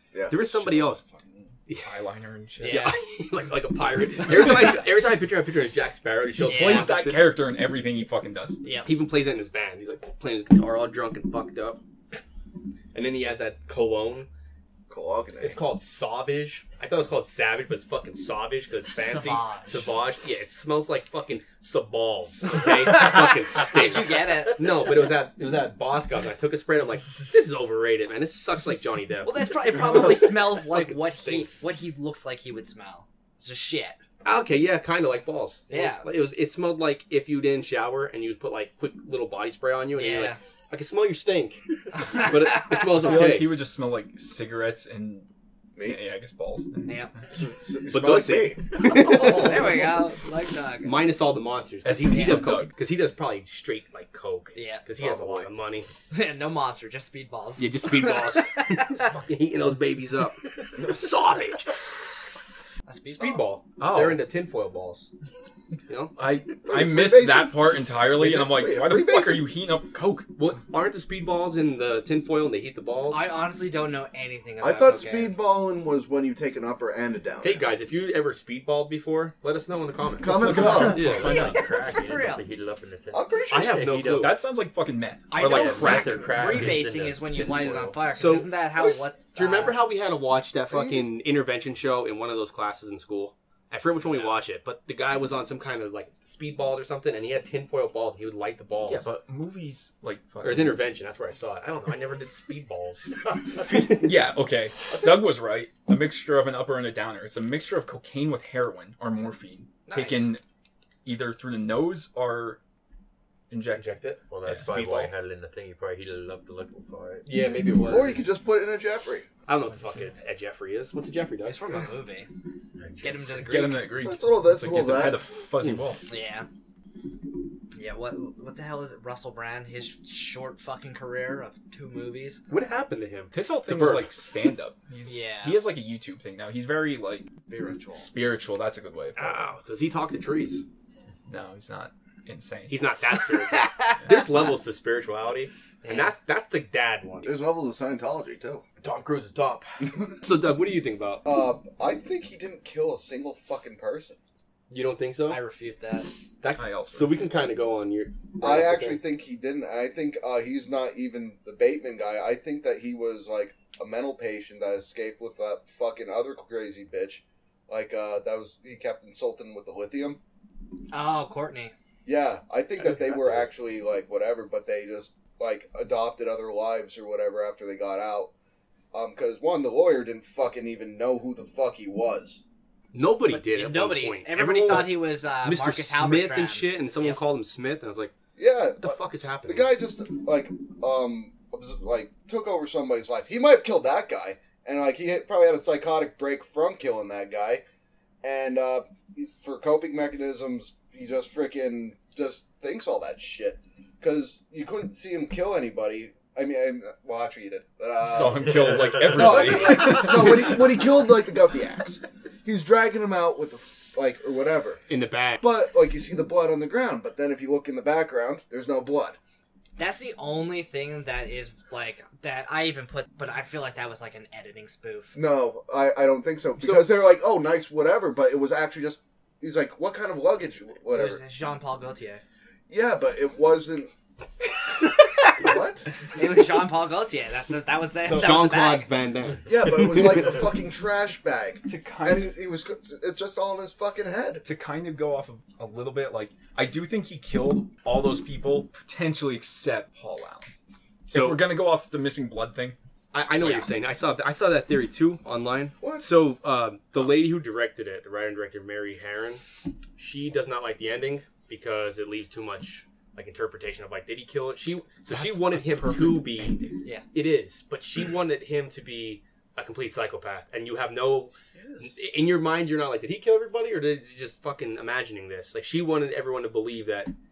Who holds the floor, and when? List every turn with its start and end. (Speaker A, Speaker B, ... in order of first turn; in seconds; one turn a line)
Speaker A: 0.1-0.5
Speaker B: 0.3-1.0
Speaker C: 0.3-2.9
Speaker B: 1.7-2.0
Speaker B: 2.6-7.3
Speaker D: 2.6-3.0
Speaker C: 4.2-4.7
Speaker C: 6.4-8.6
Speaker D: 6.4-7.0
Speaker D: 8.6-8.9
Speaker B: 8.8-11.8
Speaker B: 12.9-14.3
Speaker A: 14.9-15.6
Speaker B: 15.4-31.6
Speaker D: 18.9-19.9
Speaker D: 22.9-24.6
Speaker D: 29.2-34.0
Speaker B: 34.2-43.6
Speaker D: 35.7-36.0
Speaker D: 39.9-40.4
Speaker D: 42.0-42.9
Speaker C: 42.9-45.3
Speaker A: 45.8-46.0
Speaker C: 45.8-47.1
Speaker D: 46.8-47.1
Speaker A: 47.3-49.8
Speaker B: 47.9-49.9
Speaker D: 48.8-51.0
Speaker B: 50.8-55.9
Speaker C: 51.8-52.8
Speaker D: 52.1-52.5
Speaker D: 54.5-54.8
Speaker A: 55.0-55.5
Speaker D: 56.1-59.1
Speaker B: 57.6-62.3
Speaker D: 62.9-63.4
Speaker B: 63.1-65.1
Speaker C: 63.8-64.2
Speaker B: 65.9-66.1
Speaker C: 66.2-70.3
Speaker A: 66.6-69.5
Speaker B: 70.3-73.3
Speaker D: 73.1-75.3
Speaker A: 74.6-77.7
Speaker B: 77.4-81.5
Speaker A: 80.2-81.4
Speaker C: 80.3-81.6
Speaker E: 80.5-84.3
Speaker D: 80.8-82.4
Speaker A: 83.1-83.9
Speaker B: 83.5-84.4
Speaker C: 84.1-86.3
Speaker D: 85.3-89.8
Speaker B: 85.3-86.9
Speaker E: 85.6-88.0
Speaker B: 88.1-99.1
Speaker A: 90.7-91.1
Speaker C: 98.8-100.8
Speaker B: 100.4-103.8
Speaker C: 103.6-110.4
Speaker D: 109.8-110.3
Speaker C: 111.0-112.6
Speaker C: 113.5-113.9
Speaker B: 113.8-115.1
Speaker E: 114.3-117.3
Speaker B: 117.2-118.2
Speaker A: 117.8-119.3
Speaker B: 119.5-121.7
Speaker D: 121.5-122.3
Speaker E: 122.8-123.5
Speaker D: 123.0-123.9
Speaker C: 123.4-126.0
Speaker A: 124.0-125.2
Speaker D: 126.1-126.5
Speaker D: 127.7-132.4
Speaker B: 132.5-134.1
Speaker C: 133.3-139.5
Speaker D: 135.1-135.6
Speaker D: 137.5-138.1
Speaker B: 139.2-140.6
Speaker C: 141.3-142.8
Speaker B: 142.7-147.3
Speaker D: 143.5-144.2
Speaker D: 145.8-146.1
Speaker A: 147.2-148.6
Speaker B: 148.8-151.2
Speaker A: 151.2-154.2
Speaker B: 154.7-155.4
Speaker D: 155.3-156.1
Speaker B: 156.4-159.0
Speaker C: 156.5-157.3
Speaker A: 158.4-170.2
Speaker D: 170.9-171.7
Speaker A: 172.1-178.3
Speaker B: 172.8-173.5
Speaker A: 178.9-182.4
Speaker B: 182.9-188.1
Speaker D: 183.3-187.2
Speaker A: 188.4-197.6
Speaker B: 188.8-189.7
Speaker A: 198.2-214.8
Speaker C: 208.0-210.6
Speaker B: 214.9-215.4
Speaker A: 215.4-219.2
Speaker D: 219.8-225.2
Speaker A: 225.1-231.2
Speaker B: 226.6-226.9
Speaker D: 230.9-232.2
Speaker A: 232.7-233.9
Speaker A: 235.4-235.9
Speaker D: 236.1-238.9
Speaker C: 238.0-238.5
Speaker B: 238.1-240.5
Speaker A: 239.4-244.4
Speaker C: 241.6-242.3
Speaker C: 244.4-250.5
Speaker C: 251.1-252.8
Speaker B: 251.1-251.6
Speaker B: 253.1-259.4
Speaker C: 253.3-253.7
Speaker A: 255.8-256.1
Speaker B: 260.0-266.6
Speaker C: 265.1-266.8
Speaker B: 267.1-277.1
Speaker A: 271.5-271.9